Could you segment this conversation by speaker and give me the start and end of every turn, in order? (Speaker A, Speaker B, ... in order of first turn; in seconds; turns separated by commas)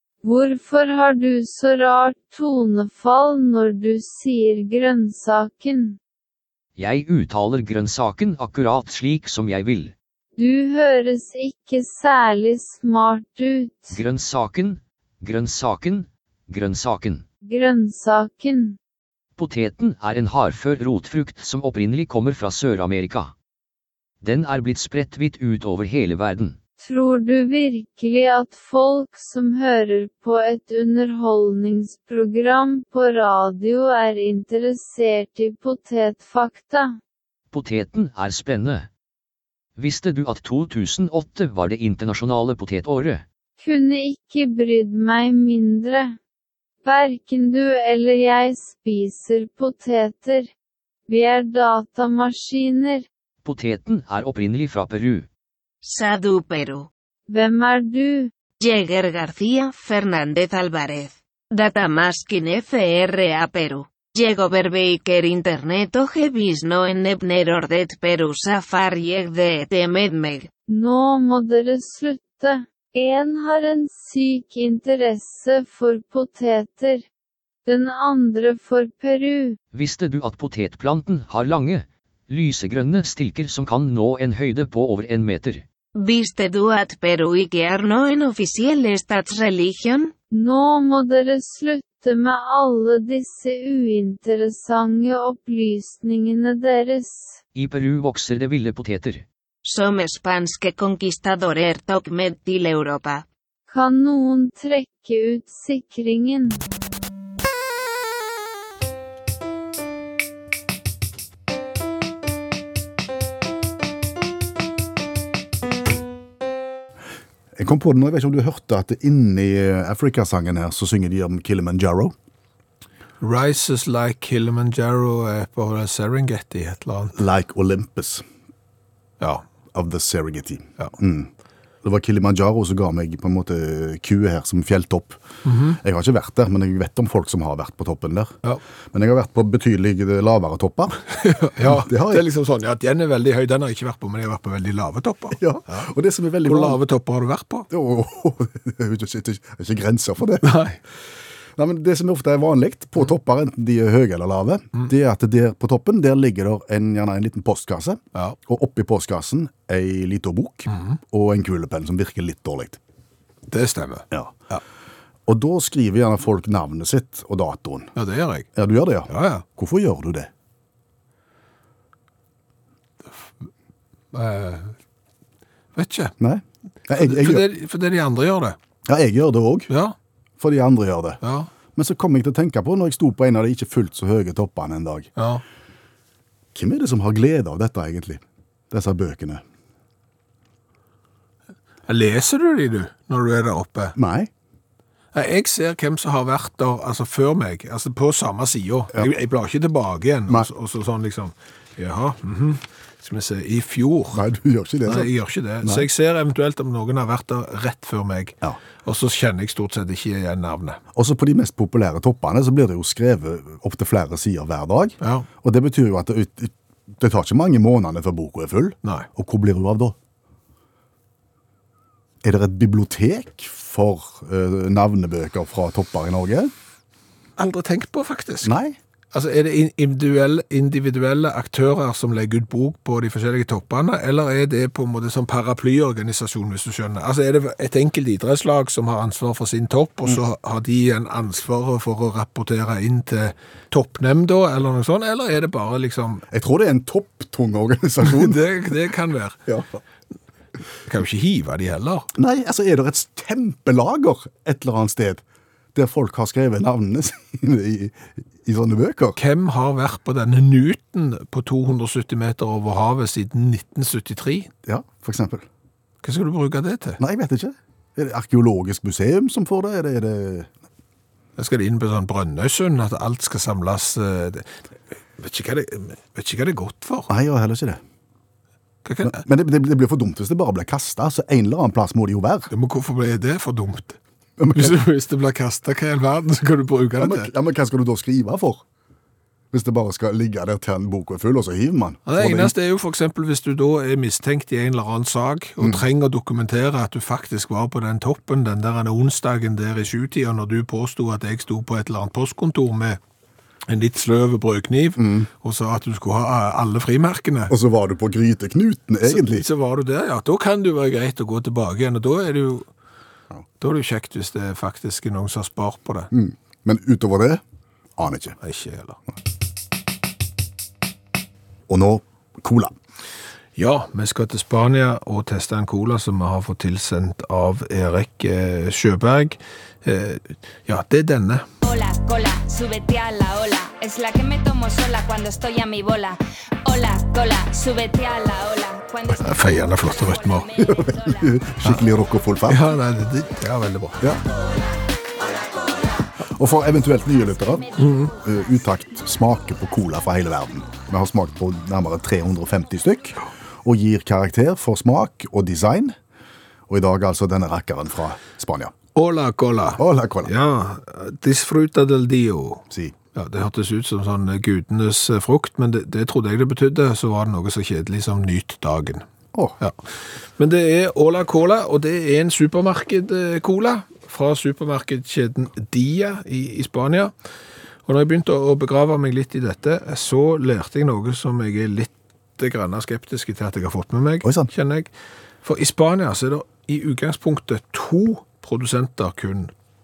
Speaker A: 0.2-6.0, Speaker B: 6.8-9.9, Speaker A: 10.4-13.9, Speaker B: 13.9-17.2, Speaker A: 17.4-18.8, Speaker B: 19.4-23.3, Speaker B: 24.2-26.6, Speaker A: 26.8-37.0, Speaker B: 37.5-38.9, Speaker B: 39.8-43.2, Speaker A: 43.6-46.2, Speaker A: 46.8-50.5, Speaker A: 51.1-53.1, Speaker B: 53.4-55.3, Speaker C: 55.8-56.9, Speaker A: 57.3-58.3, Speaker C: 58.6-70.5, Speaker A: 70.7-77.0, Speaker A: 77.7-79.6, Speaker B: 79.7-85.6, Speaker C: 85.9-90.1, Speaker A: 90.3-97.4, Speaker B: 97.5-99.2, Speaker C: 99.6-103.2, Speaker A: 103.7-106.6, Speaker D: 117.6-122.1, Speaker E: 123.2-127.2, Speaker D: 127.2-128.2, Speaker D: 129.7-131.3, Speaker D: 131.8-135.2, Speaker E: 135.4-135.8, Speaker D: 135.8-138.4, Speaker D: 138.9-141.0, Speaker E: 141.2-145.9, Speaker D: 141.6-142.2, Speaker D: 145.3-146.8, Speaker E: 146.4-147.7, Speaker D: 147.7-150.5, Speaker E: 150.4-150.8, Speaker D: 151.6-162.8, Speaker E: 163.5-164.6, Speaker D: 164.1-164.4, Speaker D: 165.3-167.9, Speaker E: 167.9-168.5, Speaker D: 168.6-170.3, Speaker E: 169.1-169.4, Speaker E: 174.1-174.7, Speaker E: 175.7-176.1, Speaker D: 176.2-177.4, Speaker E: 176.9-178.6, Speaker D: 178.9-179.7, Speaker E: 179.7-179.9, Speaker D: 180.4-181.2, Speaker E: 181.2-181.5, Speaker D: 181.8-185.1, Speaker E: 185.2-185.4, Speaker D: 186.5-189.4, Speaker E: 191.9-193.9, Speaker D: 193.9-194.3, Speaker E: 195.1-204.2, Speaker D: 204.1-205.1, Speaker E: 204.8-210.8, Speaker D: 210.9-219.9, Speaker E: 215.0-215.3, Speaker D: 222.2-226.5, Speaker E: 227.4-228.5, Speaker D: 228.4-228.8, Speaker E: 229.1-246.2, Speaker D: 246.3-248.4, Speaker E: 248.0-249.4, Speaker D: 249.5-249.8, Speaker E: 250.9-252.1, Speaker D: 252.2-255.2, Speaker D: 255.7-259.2, Speaker E: 259.2-264.5, Speaker D: 264.6-265.4, Speaker E: 266.0-267.0, Speaker D: 267.0-270.5, Speaker E: 271.4-274.5, Speaker E: 275.2-277.1, Speaker D: 277.1-277.8, Speaker E: 278.8-279.2, Speaker D: 279.0-282.5, Speaker E: 282.5-284.0, Speaker D: 284.4-284.8, Speaker E: 284.5-287.3, Speaker D: 287.0-288.6, Speaker D: 289.5-292.5, Speaker E: 292.1-303.0, Speaker E: 303.7-307.5, Speaker D: 305.0-305.3, Speaker D: 307.5-309.4, Speaker E: 309.0-312.7, Speaker E: 313.6-316.1, Speaker D: 316.1-317.4, Speaker D: 318.0-318.4, Speaker E: 318.4-319.0, Speaker D: 321.7-322.7, Speaker E: 323.6-331.4, Speaker F: 331.6-341.2, Speaker E: 339.2-340.5, Speaker D: 340.6-342.6, Speaker E: 342.5-344.0, Speaker D: 346.3-355.9, Speaker E: 347.8-348.1, Speaker D: 356.7-358.7, Speaker E: 358.9-369.0, Speaker D: 359.8-360.3, Speaker D: 362.7-362.9, Speaker E: 369.6-377.1, Speaker E: 377.9-384.9, Speaker D: 384.2-384.5, Speaker E: 385.4-389.5